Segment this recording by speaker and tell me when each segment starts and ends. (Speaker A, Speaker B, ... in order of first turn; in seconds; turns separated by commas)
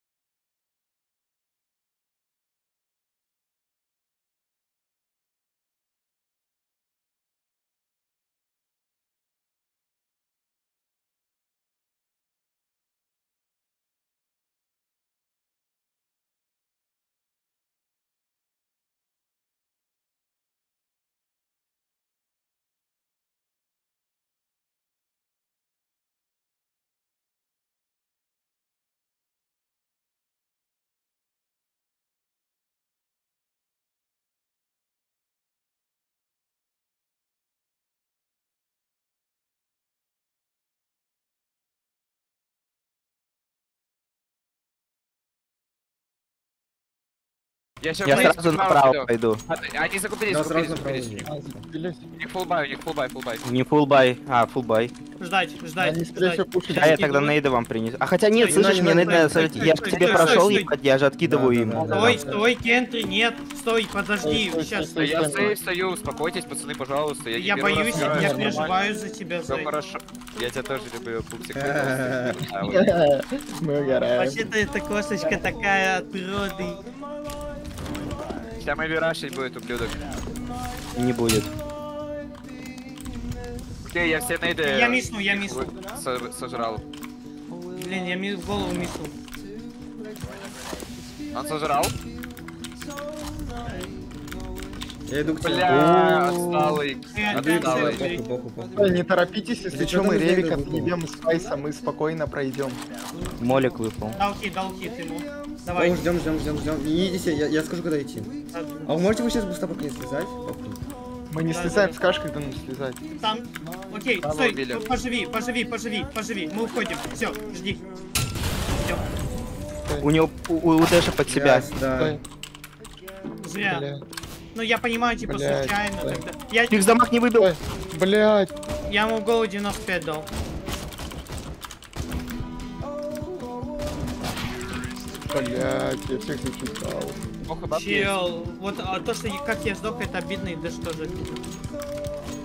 Speaker A: 47.8-51.3, Speaker B: 48.0-49.4, Speaker C: 50.3-51.6, Speaker D: 51.3-52.0, Speaker A: 52.2-53.4, Speaker B: 53.4-54.9, Speaker E: 55.2-57.4, Speaker D: 55.8-57.0, Speaker B: 56.7-62.2, Speaker E: 58.4-60.7, Speaker C: 58.5-59.7, Speaker A: 59.8-60.6, Speaker C: 61.2-62.4, Speaker D: 61.7-62.5, Speaker E: 61.9-65.0, Speaker D: 64.2-65.6, Speaker A: 65.0-68.8, Speaker E: 67.3-69.7, Speaker D: 67.9-68.7, Speaker A: 69.5-72.9, Speaker C: 71.5-72.5, Speaker D: 72.6-74.5, Speaker E: 74.0-76.8, Speaker A: 78.6-80.1, Speaker B: 81.0-81.5, Speaker A: 83.9-86.8, Speaker E: 84.7-85.7, Speaker E: 87.7-89.1, Speaker A: 91.3-92.0, Speaker C: 95.1-96.5, Speaker A: 95.4-98.1, Speaker D: 95.7-96.2, Speaker E: 97.1-98.2, Speaker C: 97.3-99.1, Speaker D: 98.8-102.8, Speaker C: 99.7-101.0, Speaker B: 103.4-104.2, Speaker E: 104.2-106.0, Speaker C: 105.8-108.3, Speaker E: 108.5-108.9, Speaker C: 108.9-110.8, Speaker D: 111.3-113.0, Speaker E: 111.5-112.0, Speaker E: 113.2-117.9, Speaker A: 114.2-114.9, Speaker E: 118.7-119.0, Speaker D: 119.8-120.1, Speaker B: 120.0-121.7, Speaker C: 121.3-122.2, Speaker D: 121.4-122.2, Speaker E: 123.4-123.9, Speaker D: 123.6-124.0, Speaker E: 124.5-127.0, Speaker D: 125.2-126.2, Speaker B: 126.7-127.5, Speaker D: 127.4-128.5, Speaker E: 128.9-130.3, Speaker D: 135.3-137.2, Speaker A: 137.5-138.1, Speaker E: 137.7-141.4